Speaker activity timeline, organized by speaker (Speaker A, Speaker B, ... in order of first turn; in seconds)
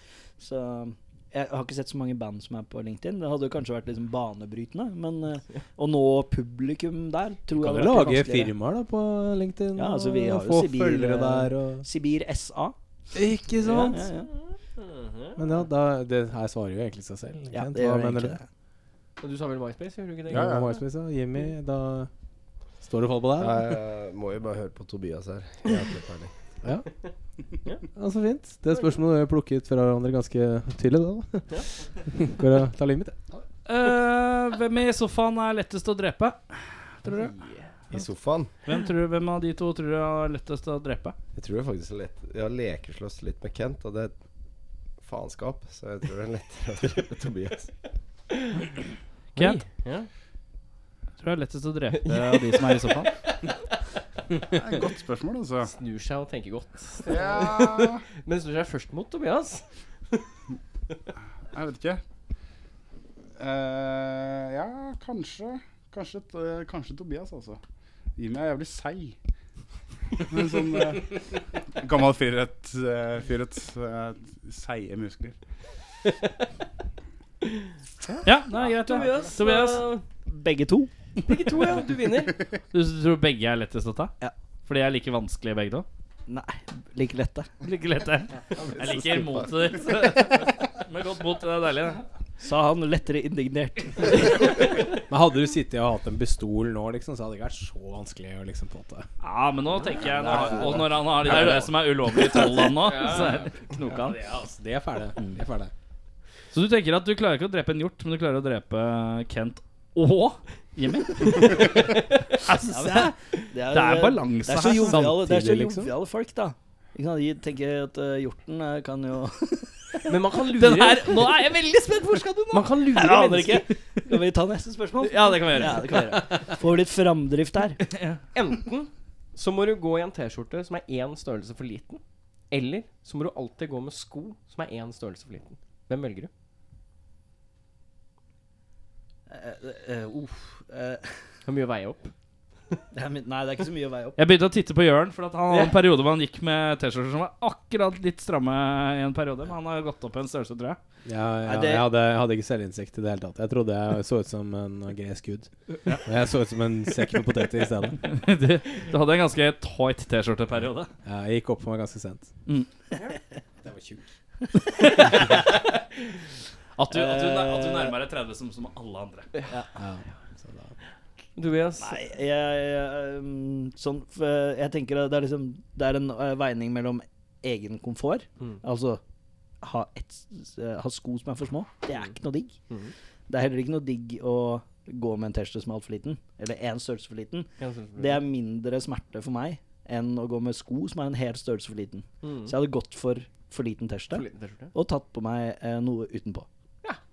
Speaker A: 0.4-8.5, 9.8-12.8, 13.6-14.3, 17.5-18.5, 80.3-80.9, 86.3-87.5, 92.4-94.6, 100.1-101.5, 112.7-120.1, 122.9-127.8, 139.3-141.2, 142.9-144.2, 151.4-151.9, 166.9-168.0, 171.8-179.0, 179.6-182.6, 183.3-196.5
Speaker B: 7.6-11.9, 13.1-14.1, 15.4-18.4, 20.3-22.1, 22.8-23.7, 27.9-33.2, 95.1-99.1, 104.0-105.7, 114.7-115.9, 151.1-155.5, 156.0-158.0, 161.1-162.3, 163.6-164.0, 169.8-170.7
Speaker C: 14.3-15.5, 19.2-20.7, 37.2-37.7, 49.4-50.1, 52.0-52.9, 55.7-60.3, 78.8-80.0, 81.2-82.4, 102.7-103.5, 120.1-121.2, 122.5-123.7, 128.3-136.3, 141.5-142.1, 145.5-145.8, 171.4-172.0, 187.6-188.2, 192.2-192.5, 194.1-194.7
Speaker D: 20.3-20.8, 54.5-55.7, 57.1-58.0, 61.5-62.0, 63.4-67.6, 68.2-69.2, 70.2-75.4
Speaker E: 23.4-26.3, 37.9-38.5, 41.4-44.1, 45.0-47.7, 88.5-89.7, 100.3-101.0
Speaker F: 33.7-37.4, 38.7-41.1, 49.4-49.6, 51.2-53.1, 78.2-79.9, 82.7-84.1, 84.7-85.9, 87.6-92.0, 99.2-104.2, 106.5-113.1, 113.7-115.0, 120.5-122.7, 125.0-126.2, 127.9-128.2, 144.2-150.8, 158.1-160.9, 164.8-165.4, 166.8-169.3